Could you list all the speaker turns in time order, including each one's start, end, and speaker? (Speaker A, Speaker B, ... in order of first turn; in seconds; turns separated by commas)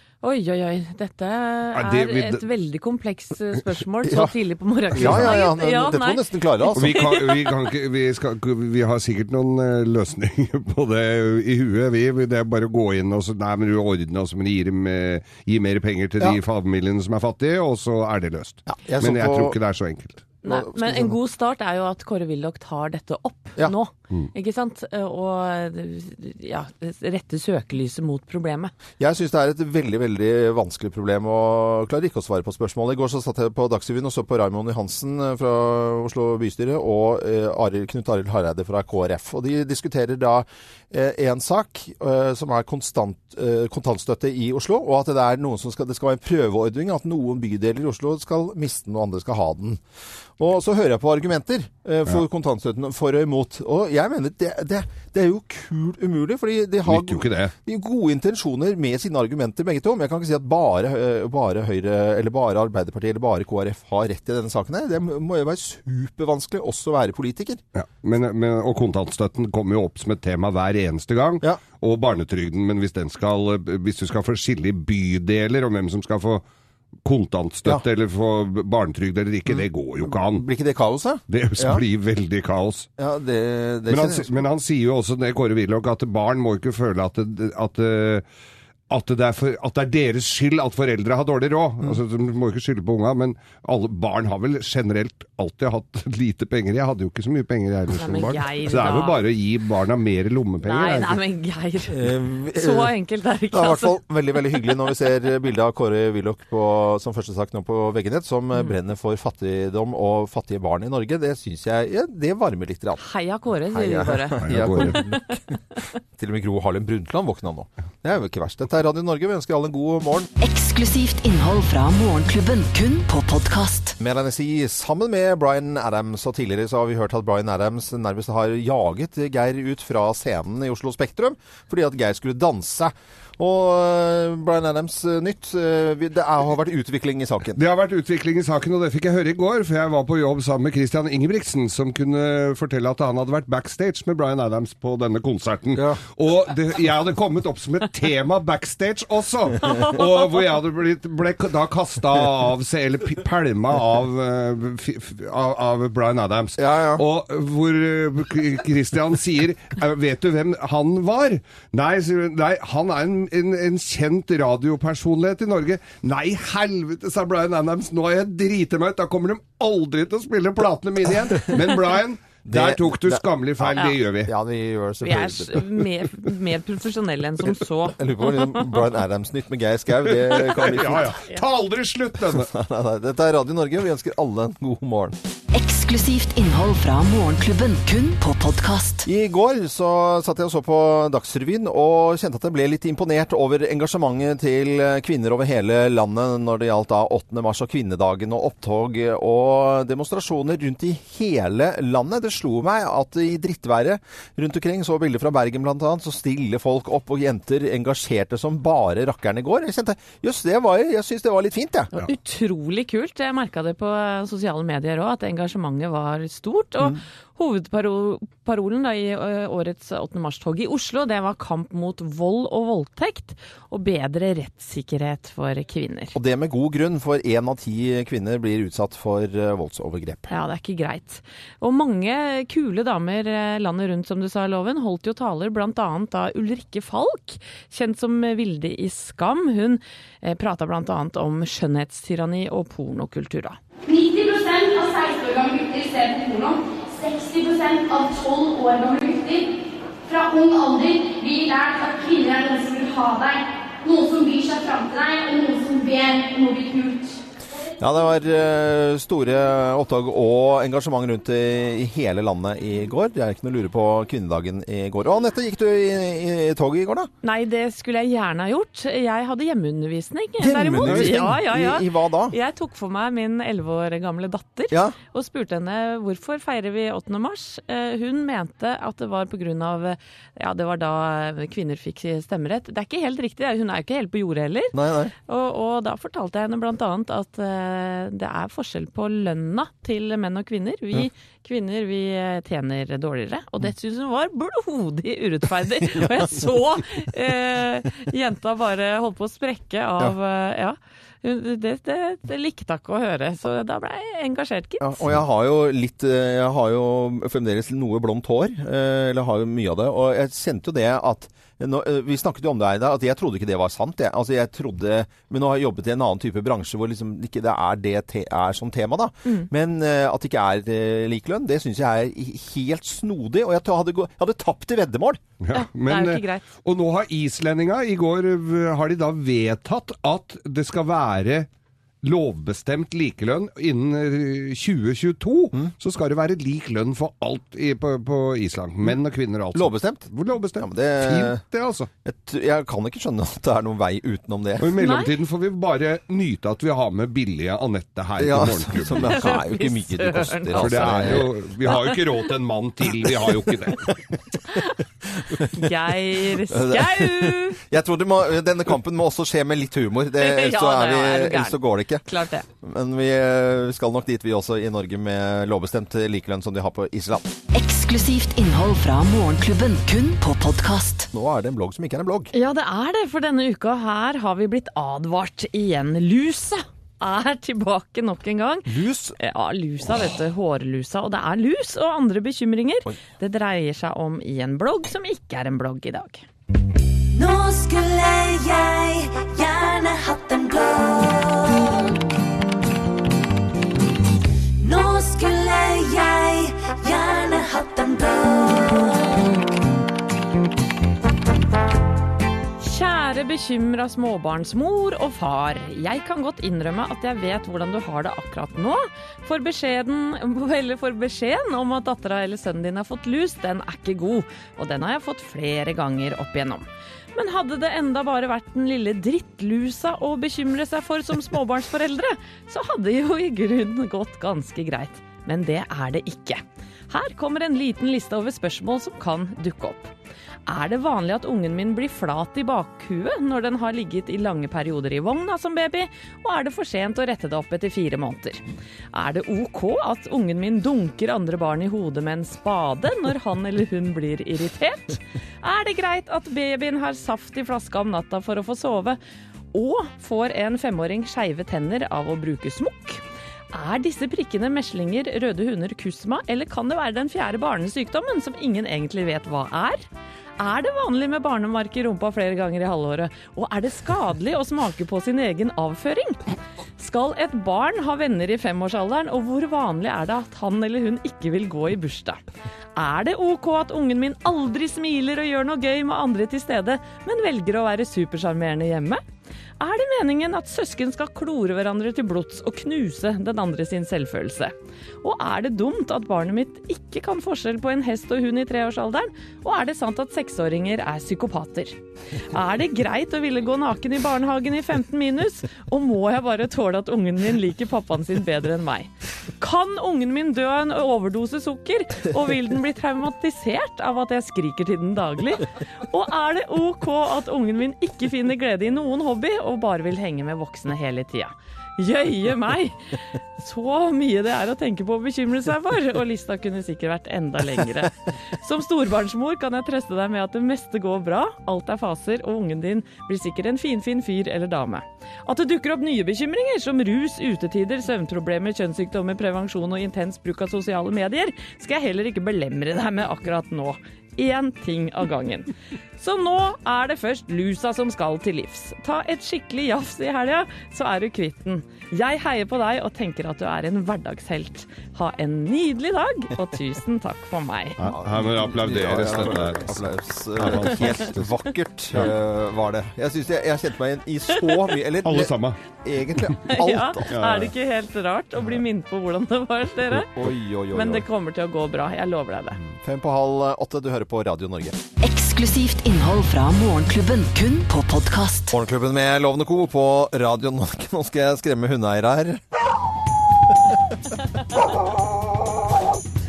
Speaker A: 0.2-7.5, Speaker B: 1.7-2.5, Speaker C: 4.0-4.3, Speaker C: 4.9-7.0, Speaker B: 5.0-5.3, Speaker B: 6.8-20.3, Speaker C: 18.7-19.6, Speaker A: 20.4-28.7, Speaker C: 20.5-21.2, Speaker C: 29.0-49.8, Speaker C: 50.4-67.6, Speaker B: 56.9-57.5, Speaker B: 67.8-76.4, Speaker B: 77.0-80.5, Speaker C: 80.2-81.8, Speaker B: 81.3-82.9, Speaker C: 83.0-84.4, Speaker B: 83.9-88.2, Speaker B: 88.9-101.2, Speaker A: 98.0-99.2, Speaker A: 100.6-104.0, Speaker C: 101.9-102.9, Speaker C: 103.5-113.0, Speaker A: 113.0-115.2, Speaker C: 113.7-115.6, Speaker B: 114.4-115.0, Speaker C: 116.1-120.3, Speaker D: 120.4-124.0, Speaker C: 124.0-137.6, Speaker B: 137.6-174.3, Speaker C: 156.6-157.0, Speaker C: 171.3-171.7, Speaker C: 172.4-175.8, Speaker A: 175.0-178.7, Speaker C: 177.8-181.2, Speaker B: 180.1-182.5, Speaker C: 182.3-185.2, Speaker D: 185.5-189.1, Speaker C: 189.1-211.9, Speaker A: 211.9-226.2, Speaker C: 226.1-230.3, Speaker A: 230.3-243.6, Speaker E: 243.9-249.5, Speaker E: 250.1-257.2, Speaker C: 257.8-267.1, Speaker A: 267.2-284.7, Speaker C: 270.4-272.4, Speaker B: 270.8-271.2, Speaker C: 274.7-275.0, Speaker C: 284.7-285.1, Speaker A: 285.3-305.0, Speaker C: 304.8-325.2, Speaker B: 325.4-331.5, Speaker A: 325.5-326.5, Speaker B: 332.0-341.9, Speaker C: 339.5-341.4, Speaker C: 342.0-344.8, Speaker B: 344.6-349.2, Speaker A: 344.8-345.1, Speaker C: 348.2-351.3, Speaker A: 349.0-352.0, Speaker B: 350.6-353.9, Speaker A: 354.5-354.7, Speaker C: 355.2-362.1, Speaker A: 355.4-357.6, Speaker A: 360.2-362.5, Speaker C: 362.6-367.3, Speaker D: 367.5-371.1, Speaker C: 371.1-372.3, Speaker A: 372.3-386.2, Speaker C: 378.7-379.2, Speaker F: 387.1-392.0, Speaker F: 394.6-399.4, Speaker A: 402.6-429.9, Speaker A: 430.5-438.4, Speaker A: 438.9-449.0, Speaker A: 449.5-459.9, Speaker A: 460.4-472.2, Speaker A: 472.8-479.0, Speaker A: 479.6-491.8, Speaker A: 492.3-547.8, Speaker B: 547.8-551.3, Speaker C: 547.8-557.2, Speaker B: 555.0-555.6, Speaker A: 556.4-560.1, Speaker B: 557.1-557.5, Speaker C: 560.1-561.1, Speaker A: 560.7-562.6, Speaker C: 562.6-564.8, Speaker D: 565.0-568.5, Speaker C: 568.5-572.4, Speaker C: 574.5-575.8